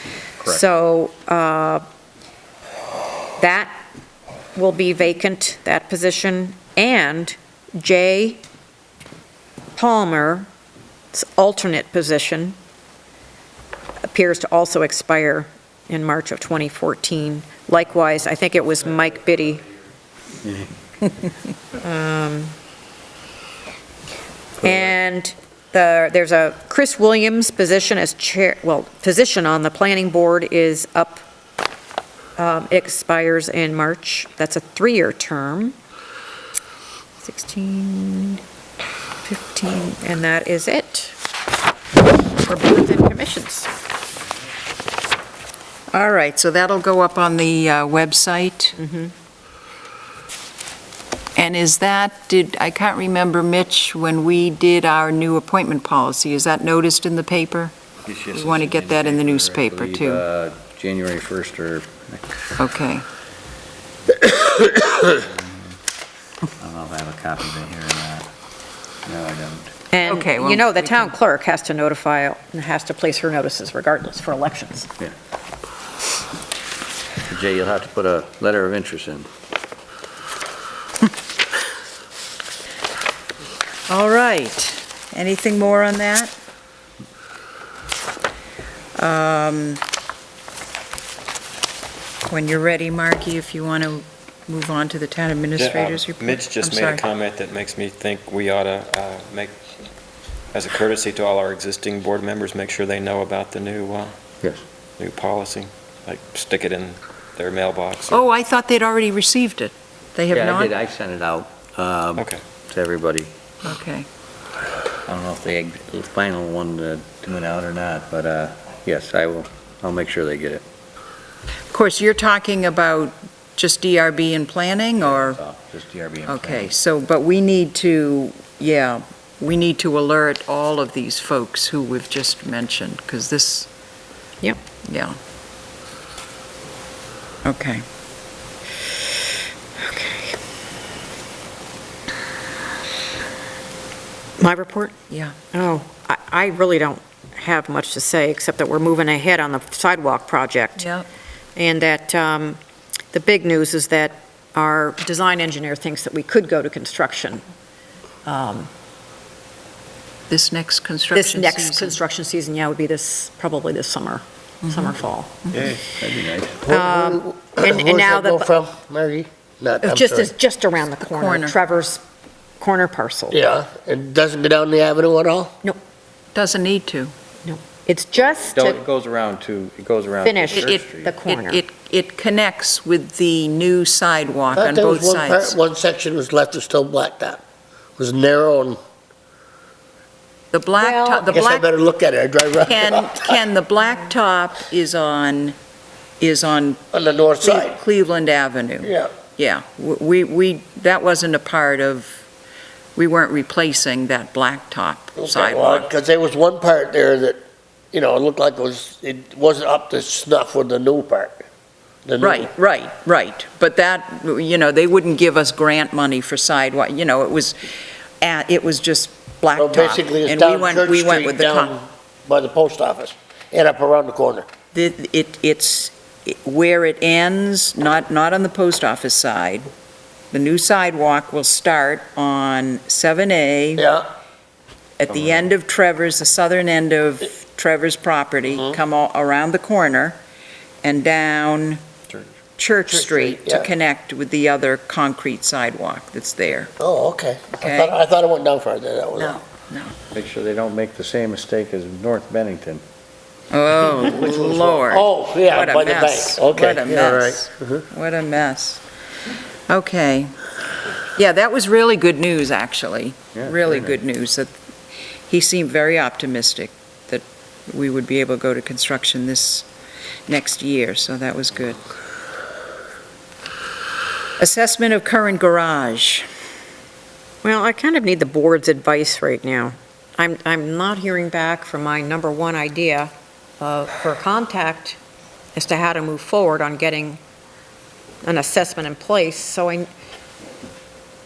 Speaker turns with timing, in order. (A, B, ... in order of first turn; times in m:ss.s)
0:00.4-0:01.8 A
0:03.4-0:03.7 A
0:04.5-0:08.4 A
0:09.7-0:10.5 A
0:11.1-0:12.6 A
0:14.1-0:19.6 A
0:21.7-0:22.5 A
0:24.6-0:31.2 A
0:32.4-0:35.8 A
0:37.2-0:38.4 A
0:39.2-0:41.2 A
0:42.3-0:43.7 A
0:45.9-0:48.8 B
0:48.8-0:49.1 A
0:51.4-0:57.7 B
0:58.0-1:02.4 C
0:58.3-1:00.2 B
1:02.6-1:03.0 B
1:05.2-1:05.7 C
1:06.6-1:08.3 C
1:09.0-1:09.7 C
1:09.9-1:14.9 A
1:10.0-1:11.1 B
1:17.3-1:19.3 C
1:23.9-1:26.3 B
1:29.0-1:29.8 B
1:32.3-1:37.0 B
1:35.6-1:39.6 D
1:40.5-1:44.1 D
1:45.0-1:48.2 D
1:48.1-1:50.7 B
1:50.3-1:53.3 C
1:53.6-1:54.1 B
1:55.0-2:00.6 C
2:01.7-2:05.4 B
2:05.2-2:06.7 C
2:06.2-2:13.7 B
2:14.8-2:15.2 B
2:17.4-2:17.8 B
2:19.8-2:20.3 A
2:24.4-2:24.9 A
2:25.1-2:25.3 B
2:25.5-2:30.9 A
2:30.8-2:31.0 B
2:31.6-2:32.6 A
2:33.1-2:37.4 A
2:38.2-2:38.7 A
2:40.3-2:42.0 B
2:41.1-2:45.7 A
2:46.0-2:46.6 C
2:46.7-2:50.3 E
2:46.7-2:48.5 A
2:49.8-2:52.0 A
2:51.0-2:51.6 B
2:52.6-2:53.4 A
2:53.3-2:55.5 E
2:56.3-2:57.1 B
2:57.4-2:58.8 A
2:58.5-3:01.1 C
3:00.2-3:01.6 A
3:00.5-3:05.6 B
3:04.5-3:07.4 E
3:08.0-3:08.8 E
3:10.5-3:11.7 B
3:10.8-3:11.2 A
3:11.3-3:13.4 E
3:12.7-3:15.6 B
3:16.2-3:16.8 B
3:16.9-3:17.8 E
3:17.4-3:22.2 B
3:18.8-3:19.1 E
3:23.0-3:25.9 B
3:25.2-3:27.4 E
3:27.9-3:31.4 E
3:32.0-3:32.5 E
3:32.2-3:41.7 B
3:39.6-3:44.5 E
3:44.7-3:49.7 B
3:50.3-3:53.9 B
3:53.8-3:54.1 E
3:55.0-4:00.2 B
4:00.8-4:01.8 B
4:02.6-4:06.7 B
4:02.9-4:03.7 E
4:06.8-4:09.4 E
4:07.6-4:08.0 B
4:09.2-4:10.0 B
4:10.1-4:12.8 C
4:13.5-4:18.8 B
4:14.1-4:17.8 E
4:19.7-4:20.4 B
4:21.1-4:24.5 B
4:25.3-4:29.7 B
4:30.3-4:31.8 B
4:34.4-4:36.2 B
4:37.4-4:45.0 A
4:45.5-4:47.2 A
4:48.2-4:49.9 A